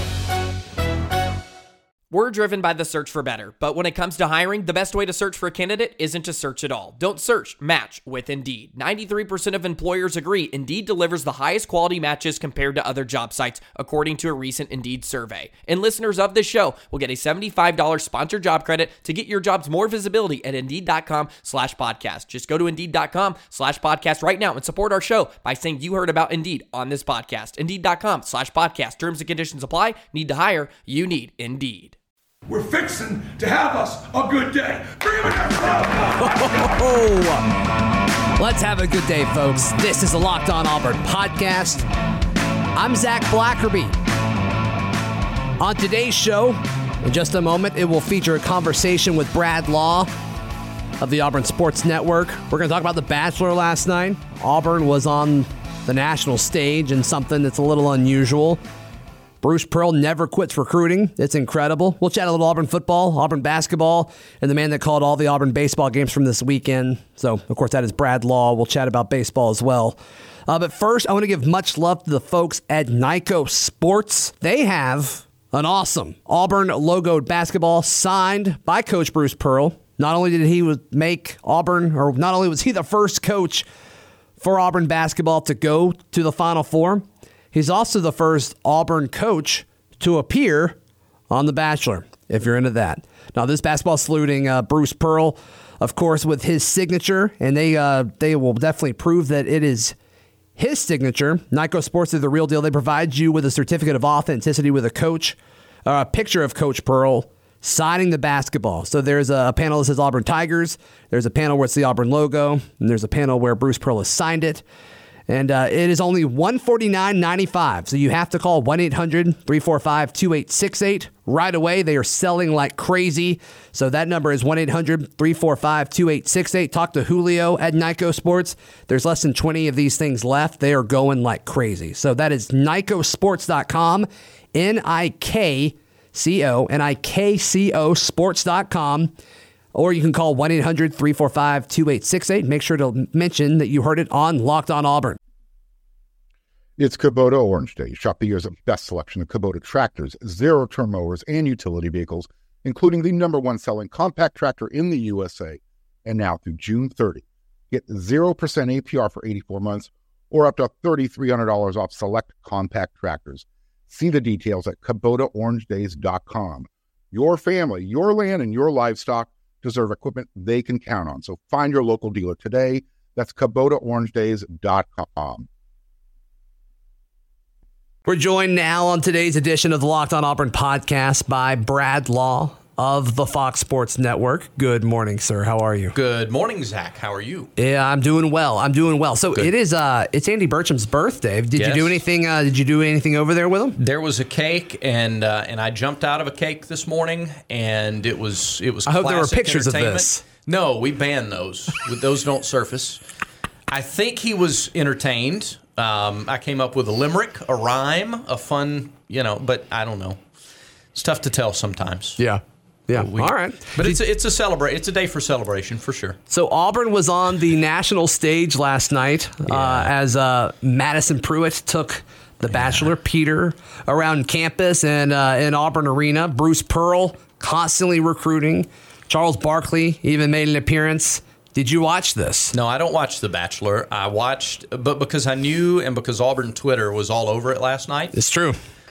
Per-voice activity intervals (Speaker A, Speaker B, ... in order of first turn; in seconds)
Speaker A: 2.1-31.9
Speaker B: 32.5-36.5
Speaker C: 36.2-37.6, 38.4-41.9, 42.8-44.0, 45.6-50.1, 51.0-58.6, 59.4-83.7, 84.4-90.8, 91.3-100.0, 100.6-114.6, 115.3-139.1, 139.7-145.2, 178.1-185.9, 187.6-193.8, 198.9-200.2, 212.2-214.0, 216.3-232.6, 238.1-238.6
Speaker D: 146.8-175.5
Speaker E: 185.9-187.5, 191.6-192.0, 193.8-203.0, 203.7-210.2, 210.9-212.2, 212.9-216.2, 219.5-219.9, 232.5-238.2